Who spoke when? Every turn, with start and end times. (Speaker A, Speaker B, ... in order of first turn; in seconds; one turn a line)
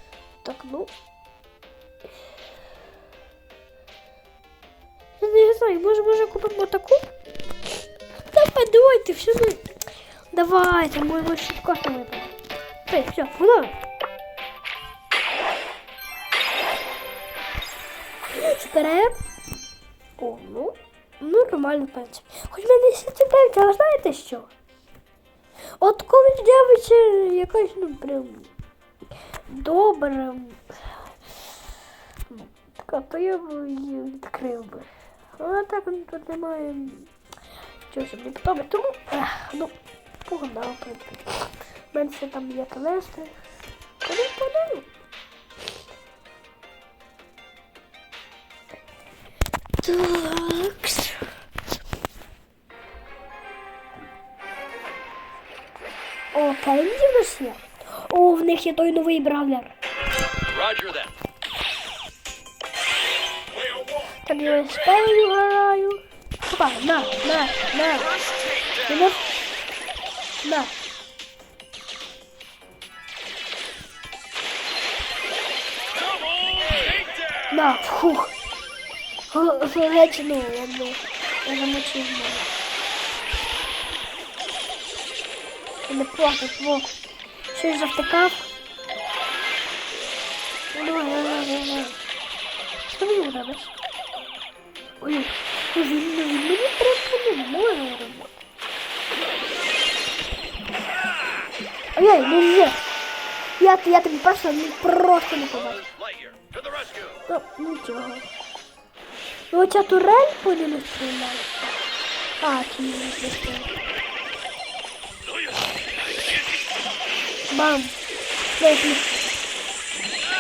Speaker A: 0.4-0.9
Speaker A: 5.2-7.1
Speaker A: 8.2-9.7
Speaker A: 10.3-12.3
Speaker A: 12.9-13.8
Speaker A: 18.3-19.2
Speaker A: 20.2-24.5
Speaker A: 25.8-28.5
Speaker A: 29.5-31.1
Speaker A: 32.3-37.1
Speaker A: 37.9-39.8
Speaker A: 40.3-43.4
Speaker A: 44.0-44.9
Speaker A: 49.8-51.3
Speaker A: 56.3-59.8
Speaker B: 60.5-61.1
Speaker A: 64.2-69.4
Speaker A: 70.4-70.7
Speaker B: 76.3-77.1
Speaker A: 77.5-78.3
Speaker A: 79.3-82.5
Speaker A: 85.8-86.9
Speaker A: 87.5-88.5
Speaker A: 90.7-92.0
Speaker A: 92.8-93.7
Speaker A: 95.0-98.3
Speaker A: 102.0-102.8
Speaker A: 103.6-105.8
Speaker B: 105.8-107.2
Speaker A: 107.3-108.3
Speaker A: 109.5-111.8
Speaker A: 112.4-113.8
Speaker A: 117.5-118.0
Speaker A: 118.6-119.3